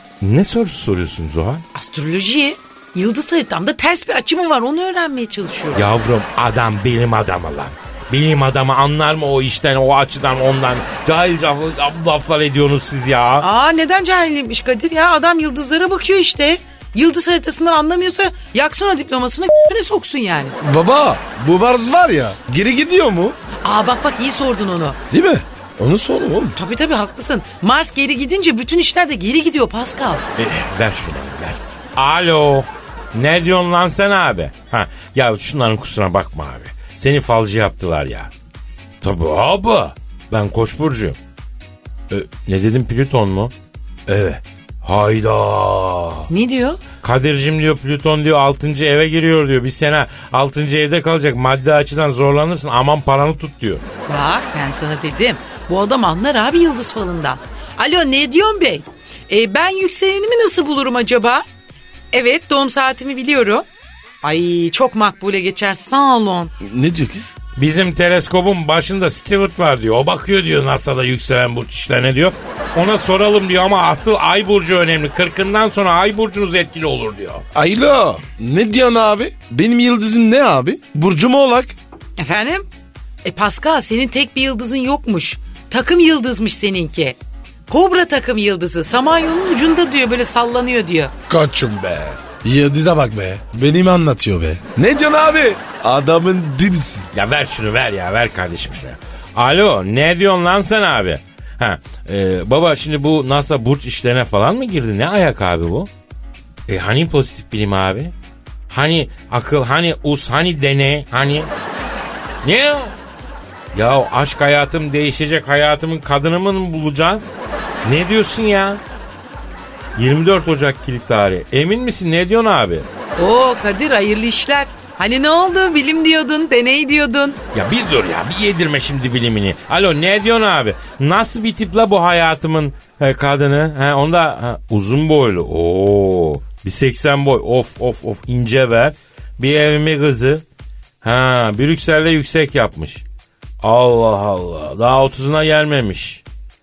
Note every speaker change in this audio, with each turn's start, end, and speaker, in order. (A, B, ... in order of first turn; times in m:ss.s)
0:00.2-0:01.6 A
0:01.7-0:05.9 B
0:05.8-0:13.5 A
0:13.4-0:20.6 B
0:20.6-0:23.4 C
0:23.6-0:25.0 B
0:25.1-0:26.6 C
0:26.6-0:30.2 B
0:30.4-0:38.3 A
0:39.0-0:41.2 A
0:42.1-0:43.5 A
0:44.1-0:46.3 A
0:46.3-0:46.8 B
0:47.0-0:53.8 A
0:54.1-1:01.4 B
1:02.1-1:03.7 B
1:04.2-1:06.5 B
1:06.6-1:07.3 C
1:07.6-1:17.4 A
1:17.6-1:21.8 C
1:22.2-1:22.7 B
1:23.2-1:27.2 B
1:27.7-1:31.1 B
1:31.3-1:37.1 C
1:37.1-1:45.9 A
1:46.7-1:48.1 A
1:48.7-1:51.5 A
1:52.4-1:52.9 A
1:53.7-1:57.2 A
1:57.8-1:58.8 A
2:00.0-2:02.9 A
2:03.2-2:07.4 B
2:07.5-2:20.4 A
2:21.0-2:23.0 A
2:23.6-2:26.2 A